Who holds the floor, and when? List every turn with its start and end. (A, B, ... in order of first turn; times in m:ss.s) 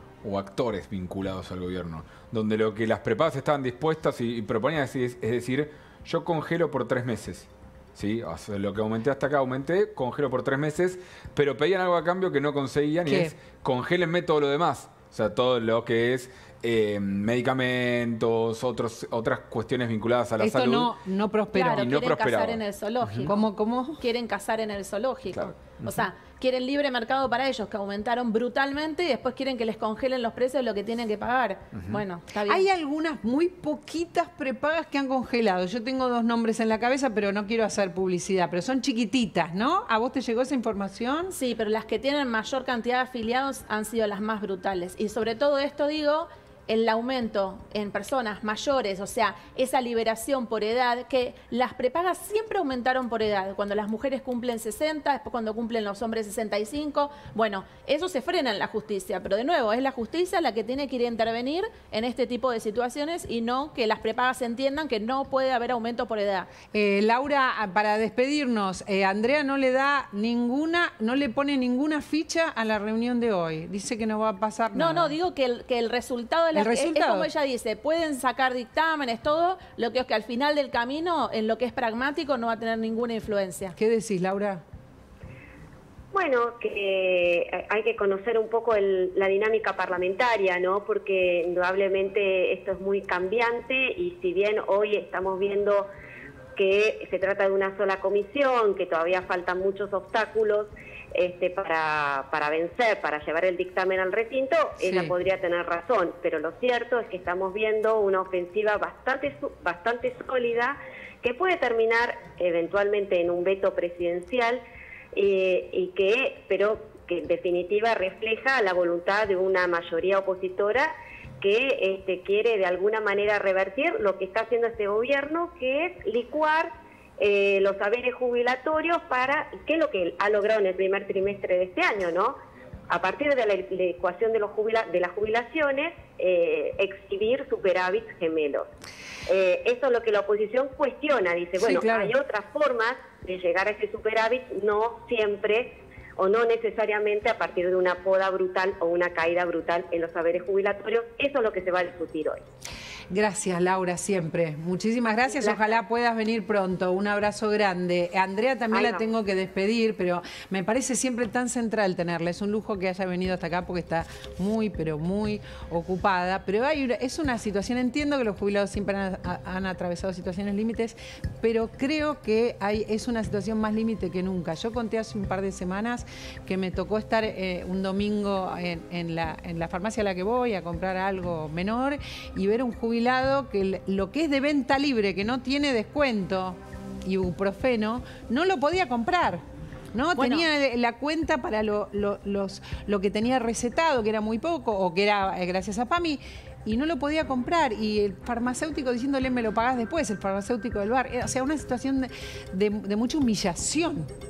0:00.2-0:20.9 A
0:13.1-0:13.4 B
0:20.4-0:21.9 B
0:21.5-0:23.5 C
0:21.7-0:23.3 A
0:23.3-0:24.0 B
0:24.0-0:32.7 C
0:25.4-0:26.1 A
0:31.8-0:32.0 A
0:32.5-0:41.4 B
0:41.3-1:06.5 C
1:06.7-1:15.2 B
1:14.7-1:23.8 C
1:16.5-1:17.3 B
1:23.8-1:24.6 B
1:26.1-1:35.9 D
1:36.6-1:54.6 D
1:44.8-1:45.1 B
1:55.1-2:00.9 D
2:01.4-2:12.4 D
2:12.9-2:18.7 D
2:19.3-2:32.4 D
2:21.6-2:22.1 B
2:33.1-3:24.1 B
2:35.4-2:35.8 D
2:38.7-2:39.1 D
3:10.2-3:10.5 C